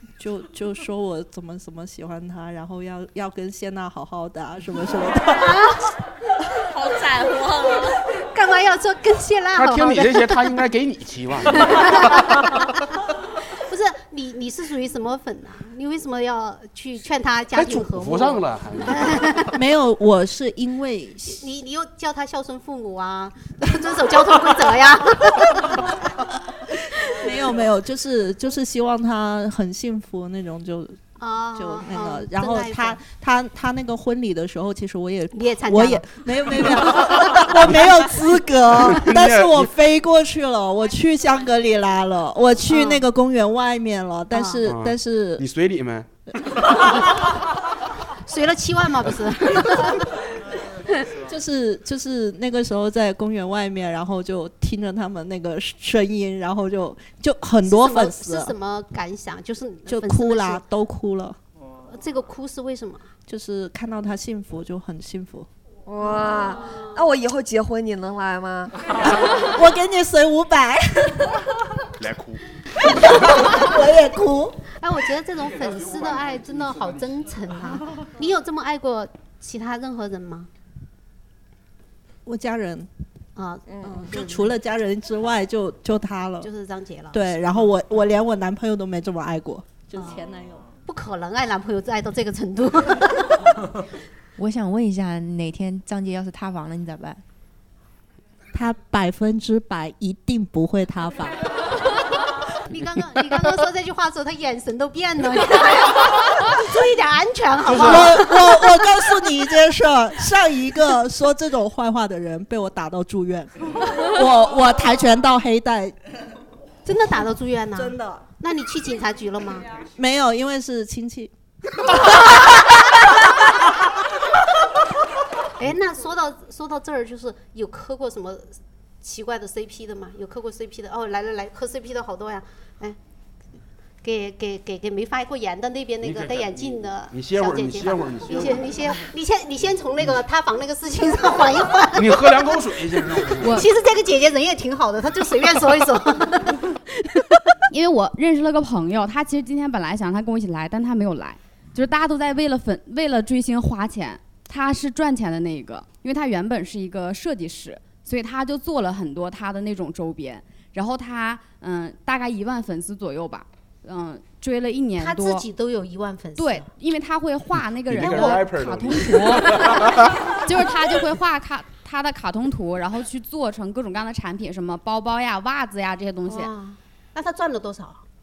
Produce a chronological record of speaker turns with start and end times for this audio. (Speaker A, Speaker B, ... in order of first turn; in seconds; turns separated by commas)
Speaker A: 0.2-5.6, Speaker B: 5.4-5.8, Speaker B: 8.1-10.4, Speaker C: 9.5-12.1, Speaker B: 11.5-12.6, Speaker B: 13.6-19.5, Speaker C: 17.5-19.4, Speaker A: 19.5-21.4, Speaker B: 21.4-25.9, Speaker A: 27.2-31.0, Speaker B: 31.2-33.0, Speaker A: 31.6-45.4, Speaker B: 35.3-37.7, Speaker C: 38.9-39.7, Speaker B: 42.7-43.0, Speaker B: 44.3-44.6, Speaker C: 44.6-46.1, Speaker B: 48.2-50.0, Speaker A: 51.2-58.5, Speaker B: 57.6-60.6, Speaker A: 59.9-61.4, Speaker B: 61.9-63.1, Speaker A: 63.3-65.5, Speaker D: 65.8-68.8, Speaker A: 69.3-71.3, Speaker A: 72.9-74.6, Speaker B: 74.7-80.5, Speaker A: 82.2-82.9, Speaker B: 83.3-84.4, Speaker D: 83.7-84.1, Speaker A: 83.8-86.5, Speaker B: 86.4-87.4, Speaker A: 87.1-90.7, Speaker B: 90.0-90.2, Speaker B: 90.9-93.6, Speaker E: 94.3-97.2, Speaker A: 98.5-101.4, Speaker B: 102.7-108.8, Speaker A: 107.7-115.9, Speaker B: 116.8-119.7, Speaker A: 117.7-118.2, Speaker A: 120.0-121.3, Speaker B: 125.6-133.0, Speaker B: 134.0-142.6, Speaker C: 136.0-138.8, Speaker C: 141.9-143.6, Speaker B: 143.4-146.7, Speaker F: 143.4-143.7, Speaker F: 147.7-165.4, Speaker B: 165.0-166.7, Speaker F: 166.4-169.9, Speaker C: 167.8-170.3, Speaker B: 168.0-168.4, Speaker F: 170.4-176.5, Speaker B: 176.2-178.0